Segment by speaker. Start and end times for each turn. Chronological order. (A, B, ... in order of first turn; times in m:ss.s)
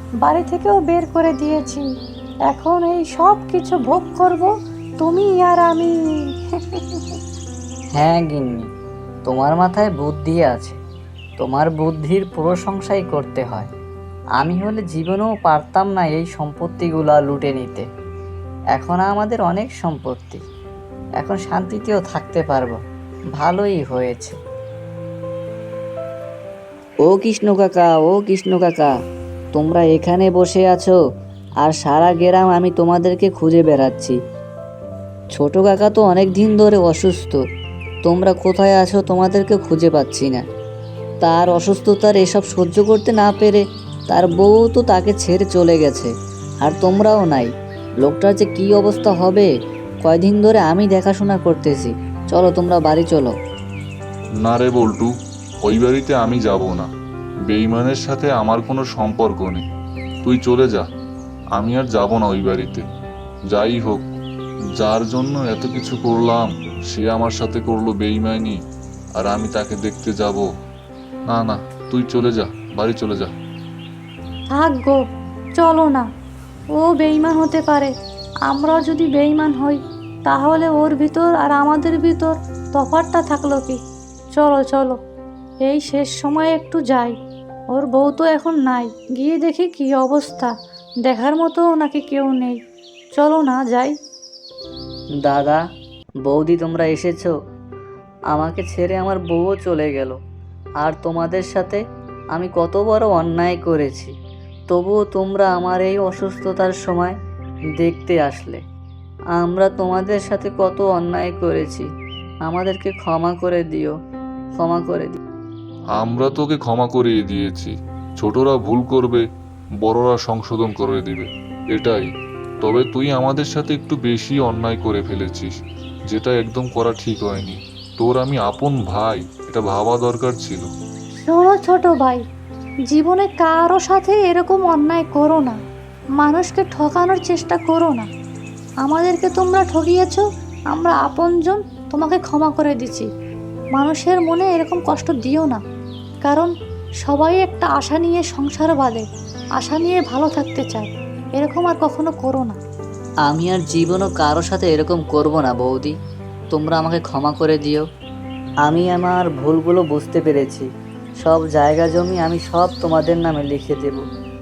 0:00.2-0:01.8 A
0:02.5-0:05.9 A
0:06.6-0:07.0 A
0:08.0-0:08.7 B
0:09.3-0:10.8 B
0:11.4-0:13.7 B
0:14.4-0:17.8 B
0:18.7-0:20.4 B
0:21.2-0:22.8 B
0:23.4-0:24.4 B
0:27.0-0:28.9 B
0:29.5-0:31.0 B
0:31.6-0:34.2 B
0:35.4-0:37.4 B
0:38.0-0:40.4 B
0:41.2-0:46.1 B
0:46.6-0:47.5 B
0:48.0-0:49.5 B
0:50.0-0:53.3 B
0:54.4-0:55.1 C
0:55.6-0:56.9 C
0:57.5-0:59.6 C
1:00.2-1:00.9 C
1:01.5-1:02.8 C
1:03.5-1:04.0 C
1:04.8-1:08.6 C
1:09.2-1:10.5 C
1:11.3-1:13.3 C
1:14.5-1:15.0 A
1:15.6-1:16.1 A
1:16.8-1:17.9 A
1:18.5-1:23.8 A
1:24.3-1:25.0 A
1:25.6-1:27.1 A
1:27.7-1:30.5 A
1:31.0-1:32.6 A
1:33.1-1:33.9 A
1:35.2-1:35.6 B
1:36.3-1:37.3 B
1:38.3-1:40.2 B
1:40.8-1:41.8 B
1:42.3-1:44.1 B
1:44.7-1:47.2 B
1:47.8-1:48.6 B
1:49.4-1:51.9 B
1:52.4-1:53.9 B
1:54.6-1:55.2 B
1:56.0-1:59.2 C
1:59.8-2:02.1 C
2:02.6-2:05.5 C
2:06.1-2:10.7 C
2:11.2-2:12.2 A
2:12.9-2:15.6 A
2:16.2-2:18.1 A
2:18.8-2:23.1 A
2:23.7-2:25.6 A
2:26.2-2:26.5 A
2:27.0-2:29.0 A
2:29.6-2:32.6 A
2:33.2-2:35.9 B
2:36.5-2:37.8 B
2:38.6-2:40.7 B
2:41.2-2:44.0 B